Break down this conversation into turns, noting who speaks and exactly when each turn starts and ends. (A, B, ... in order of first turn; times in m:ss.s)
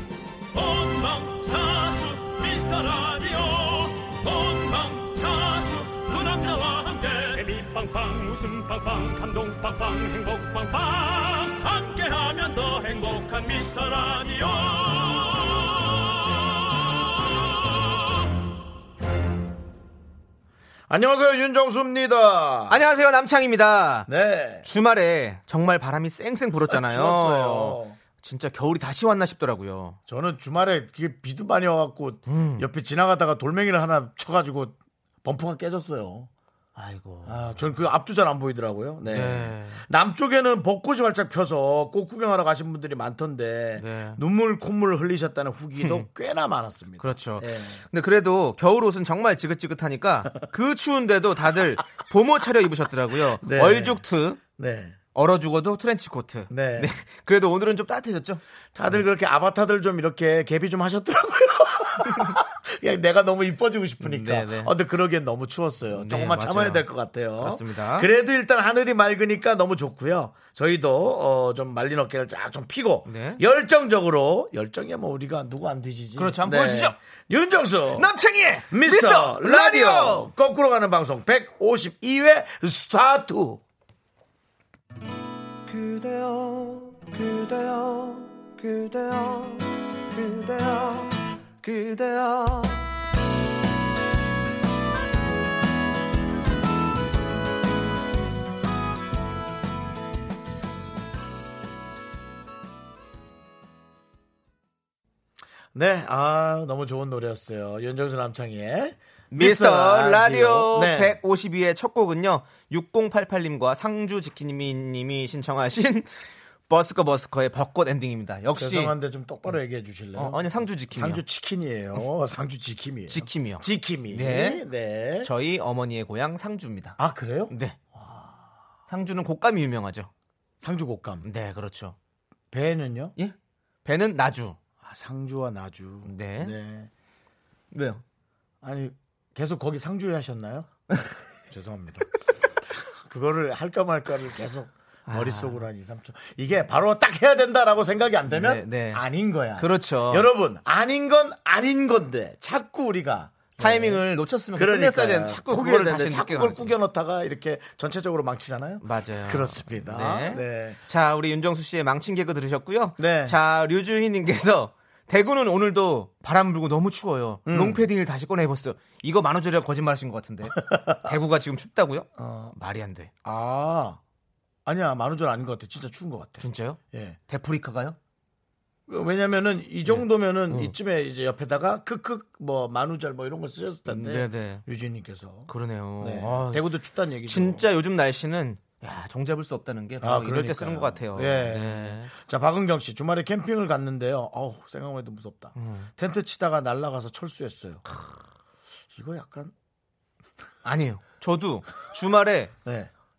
0:00.5-0:17.8 A
0:20.9-0:22.8 B
0:22.7-0:24.1 C
0:24.1-0:24.7 B
0:24.6-0:30.0 C
0:26.7-0:28.0 B
0:30.1-0:36.3 B
0:32.3-0:32.7 C
0:36.8-0:37.6 C
0:37.2-0:47.8 B
0:39.1-0:39.8 C
0:43.8-0:44.2 C
0:45.8-0:46.1 C
0:47.0-0:54.4 C
0:53.4-0:55.0 B
0:55.1-0:59.0 C
0:56.5-0:56.9 B
0:58.7-1:18.1 B
1:04.0-1:04.7 C
1:05.9-1:06.9 C
1:07.4-1:08.1 C
1:13.0-1:13.4 C
1:16.2-1:17.0 C
1:17.9-1:20.3 C
1:18.7-1:23.6 B
1:25.7-1:32.8 D
1:45.7-1:51.2 B
1:49.3-1:56.1 C
1:56.7-1:58.9 C
1:58.6-2:05.3 B
2:00.1-2:01.2 C
2:03.1-2:04.6 C
2:05.2-2:07.0 C
2:07.0-2:08.5 B
2:07.5-2:07.8 C
2:08.9-2:10.1 C
2:10.6-2:11.2 B
2:11.2-2:12.0 C
2:12.5-2:13.1 B
2:13.2-2:14.6 C
2:14.8-2:16.9 B
2:16.0-2:16.5 C
2:17.7-2:18.0 C
2:18.6-2:20.7 B
2:21.5-2:22.1 B
2:22.7-2:40.8 B
2:25.1-2:25.6 C
2:28.3-2:29.0 C
2:29.6-2:30.3 C
2:33.6-2:36.7 C
2:38.8-2:53.1 C
2:43.0-2:43.4 B
2:47.5-2:47.8 B
2:50.6-2:51.0 B
2:52.2-2:52.5 B
2:53.2-2:54.0 B
2:54.6-2:57.2 B
2:56.4-2:58.0 C
2:58.9-3:07.6 B
2:59.8-3:00.8 C
3:03.9-3:04.6 C
3:05.5-3:06.6 C
3:07.2-3:12.1 C
3:10.0-3:17.8 B
3:15.6-3:15.9 C
3:18.9-3:19.5 B
3:20.6-3:22.5 C
3:22.6-3:22.9 B